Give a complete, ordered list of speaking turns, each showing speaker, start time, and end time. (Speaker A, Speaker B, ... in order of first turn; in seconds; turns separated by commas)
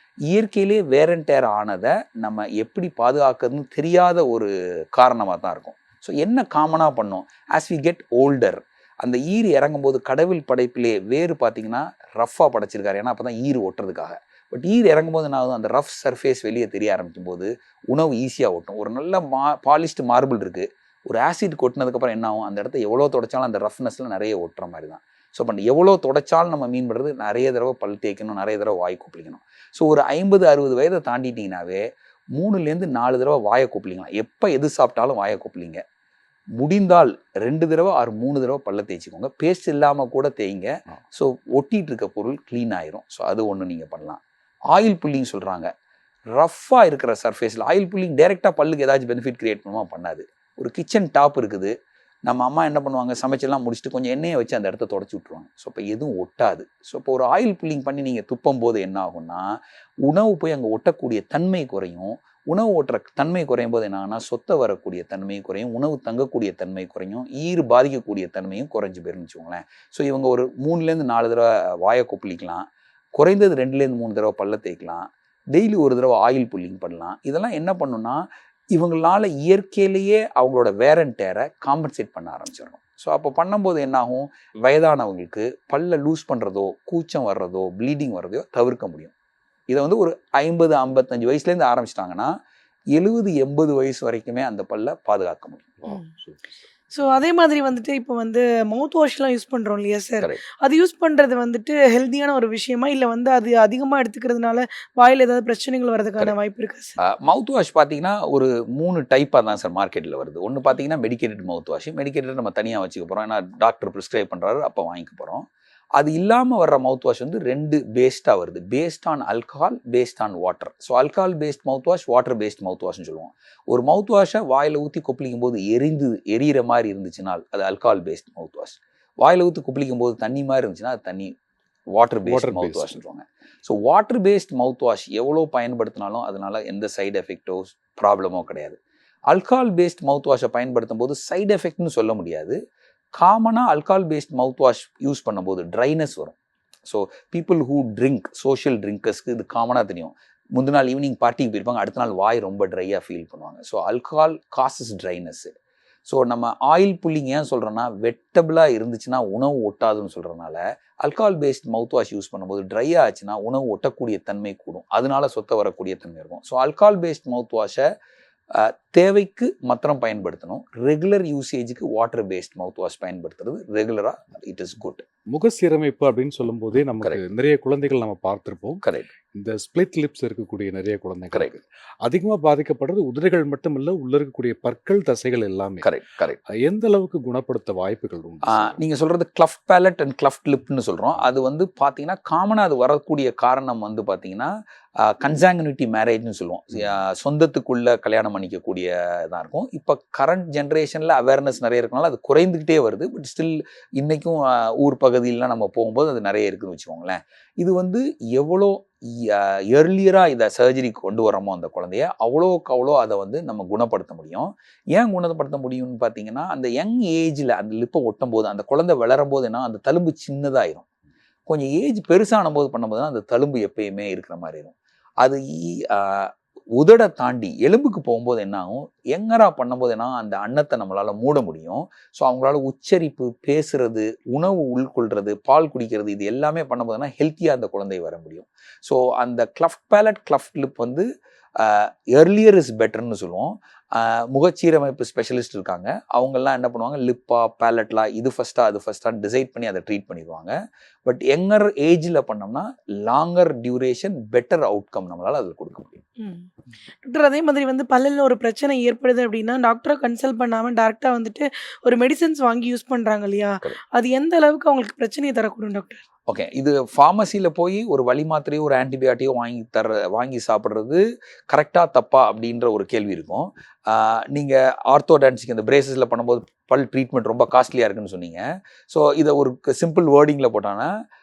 Speaker A: 0.3-35.8, Speaker A: 36.6-45.7, Speaker A: 46.3-51.7, Speaker A: 52.2-89.1, Speaker A: 89.7-92.3, Speaker A: 92.9-95.8, Speaker B: 95.8-96.7, Speaker C: 96.9-107.0, Speaker A: 107.0-131.3, Speaker A: 131.9-138.8, Speaker B: 132.2-133.0, Speaker A: 139.3-142.6, Speaker A: 143.2-155.5, Speaker A: 156.1-167.9, Speaker A: 168.5-175.1, Speaker B: 175.3-185.9, Speaker A: 178.8-179.1, Speaker A: 185.8-186.4, Speaker B: 186.5-188.8, Speaker A: 188.5-220.9, Speaker A: 221.5-241.1, Speaker A: 241.6-256.0, Speaker C: 256.2-256.5, Speaker C: 257.0-266.0, Speaker A: 266.3-280.9